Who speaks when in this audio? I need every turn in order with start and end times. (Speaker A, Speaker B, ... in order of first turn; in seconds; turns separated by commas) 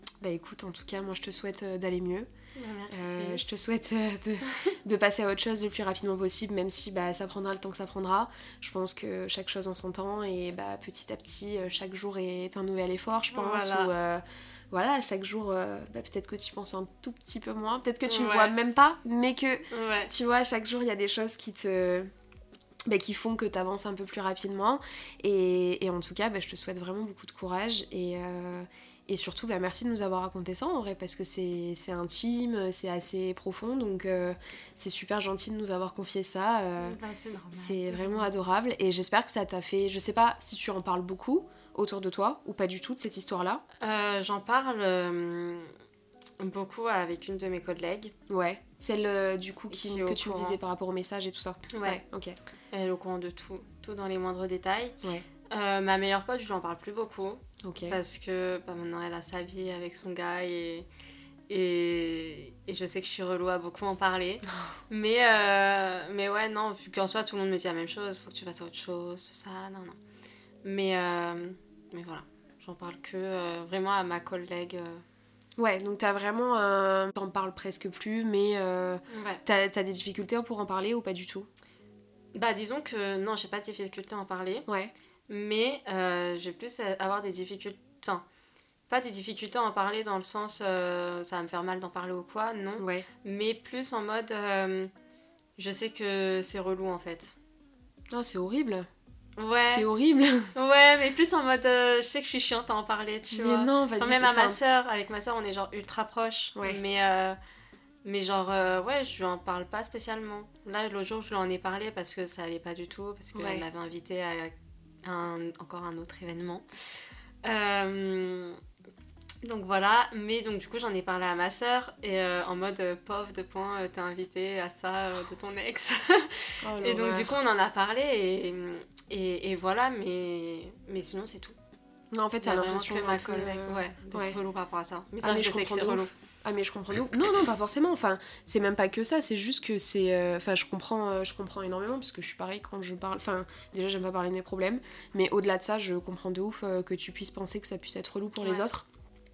Speaker A: 0.2-2.3, Speaker B: 2.5-3.6, Speaker A: 2.9-22.1, Speaker B: 4.5-4.7, Speaker B: 13.3-13.9, Speaker B: 18.1-18.5, Speaker B: 19.7-20.1, Speaker A: 22.9-37.0, Speaker B: 36.8-38.3, Speaker A: 37.5-43.6, Speaker B: 43.8-45.7, Speaker B: 46.4-48.1, Speaker A: 48.3-52.4, Speaker B: 49.7-50.6, Speaker B: 51.7-52.0, Speaker B: 52.7-60.9, Speaker A: 57.6-58.0, Speaker B: 61.5-70.0, Speaker B: 70.6-75.0, Speaker A: 75.6-81.5, Speaker B: 79.1-79.4, Speaker B: 82.3-84.7, Speaker A: 84.7-84.9, Speaker B: 85.3-88.2, Speaker B: 88.9-94.9, Speaker A: 92.8-93.1, Speaker B: 95.6-97.3, Speaker A: 98.1-98.9, Speaker B: 99.4-99.9, Speaker A: 99.7-100.5, Speaker B: 100.5-107.4, Speaker A: 103.3-104.6, Speaker B: 108.0-114.5, Speaker A: 113.3-113.6, Speaker B: 115.0-116.6, Speaker B: 117.4-118.6, Speaker B: 119.4-131.6, Speaker A: 126.6-127.3, Speaker A: 132.1-134.4, Speaker B: 132.4-136.1, Speaker A: 135.2-148.9